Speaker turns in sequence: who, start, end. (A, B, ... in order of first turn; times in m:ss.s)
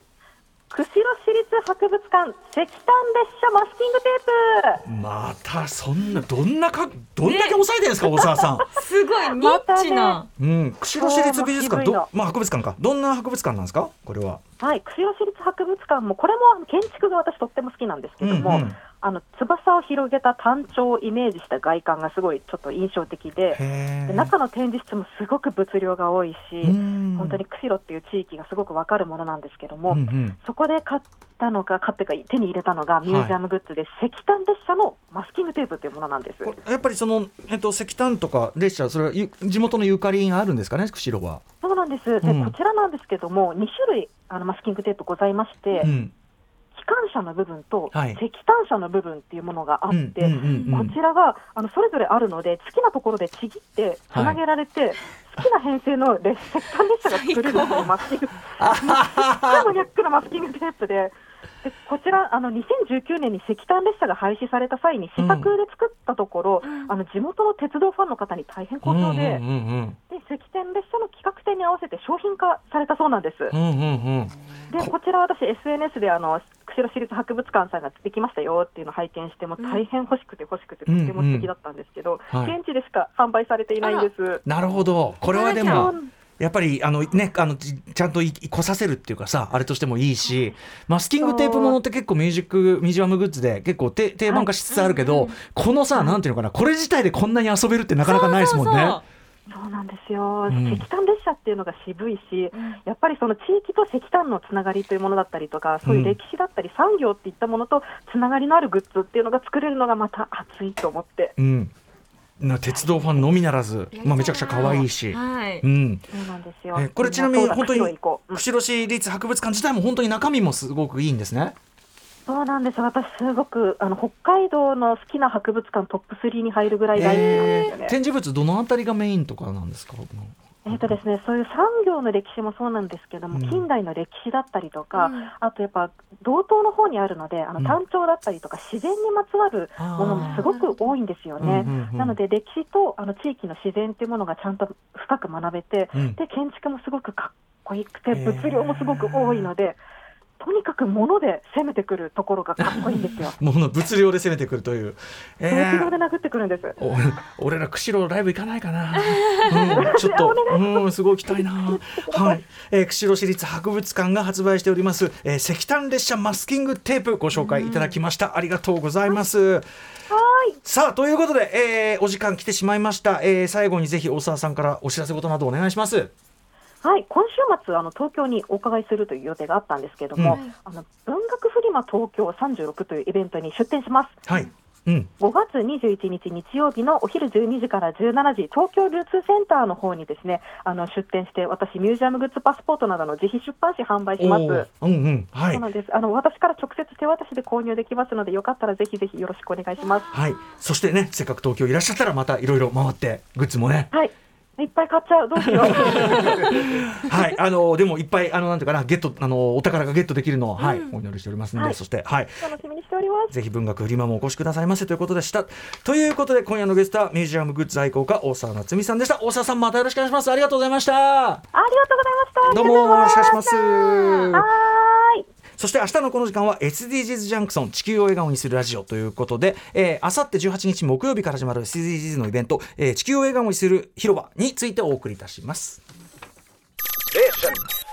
0:00.7-0:04.8 A
0:04.8-0:08.7 B
0:07.2-0:07.6 C
0:08.7-0:10.3 C
0:09.3-0:10.2 A
0:10.4-0:14.4 B
0:10.9-0:12.1 A
0:14.6-0:36.5 A
0:18.2-0:18.8 B
0:23.5-0:24.3 B
0:26.6-0:27.4 B
0:29.9-0:30.4 B
0:33.0-0:33.4 B
0:36.4-0:41.4 B
0:41.6-0:45.9 A
0:42.2-0:42.5 B
0:45.8-0:46.1 B
0:46.7-1:09.4 A
0:47.9-0:48.2 B
0:49.9-0:50.9 B
0:50.5-0:50.8 C
0:54.1-0:54.4 B
0:57.0-0:57.9 C
0:58.6-0:59.7 B
1:05.2-1:05.5 B
1:06.6-1:06.9 C
1:08.8-1:10.0 B
1:10.1-1:13.5 A
1:13.5-1:14.9 B
1:14.7-1:24.4 A
1:19.6-1:19.8 C
1:20.8-1:21.5 B
1:22.3-1:22.6 B
1:23.8-1:24.1 C
1:24.4-1:39.0 B
1:25.2-1:26.0 C
1:25.4-1:26.1 A
1:31.2-1:31.8 A
1:34.7-1:35.3 C
1:35.9-1:36.2 A
1:38.0-1:39.0 C
1:39.5-1:51.3 A
1:40.5-1:40.8 B
1:42.5-1:42.8 C
1:45.8-1:46.2 B
1:51.4-1:51.7 B
1:52.4-1:56.0 B
1:52.7-1:53.2 A
1:53.9-1:55.6 C
1:56.1-1:58.4 A
1:56.7-2:01.6 B
2:02.3-2:07.9 A
2:06.9-2:11.0 B
2:07.2-2:07.7 C
2:10.6-2:29.8 A
2:13.3-2:13.7 B
2:14.9-2:15.3 C
2:19.8-2:20.4 B
2:20.1-2:20.9 C
2:21.4-2:22.2 B
2:25.9-2:26.2 B
2:28.1-2:29.5 B
2:30.4-2:33.4 A
2:32.6-2:35.9 B
2:35.5-2:36.8 A
2:36.8-2:49.7 B
2:39.0-2:39.7 C
2:39.7-2:42.4 A
2:50.1-2:50.6 A
2:50.6-2:56.1 B
2:56.8-3:04.2 A
3:00.2-3:00.4 B
3:04.3-3:05.1 B
3:05.2-3:14.7 A
3:14.2-3:15.6 B
3:15.5-3:20.1 A
3:20.1-3:23.9 B
3:23.9-3:26.7 A
3:25.4-3:32.5 B
3:30.6-3:30.9 C
3:32.4-3:33.3 A
3:33.3-3:41.4 B
3:41.5-3:43.4 A
3:42.4-3:44.3 C
3:42.5-3:44.4 B
3:44.3-3:45.2 A
3:45.6-3:55.8 B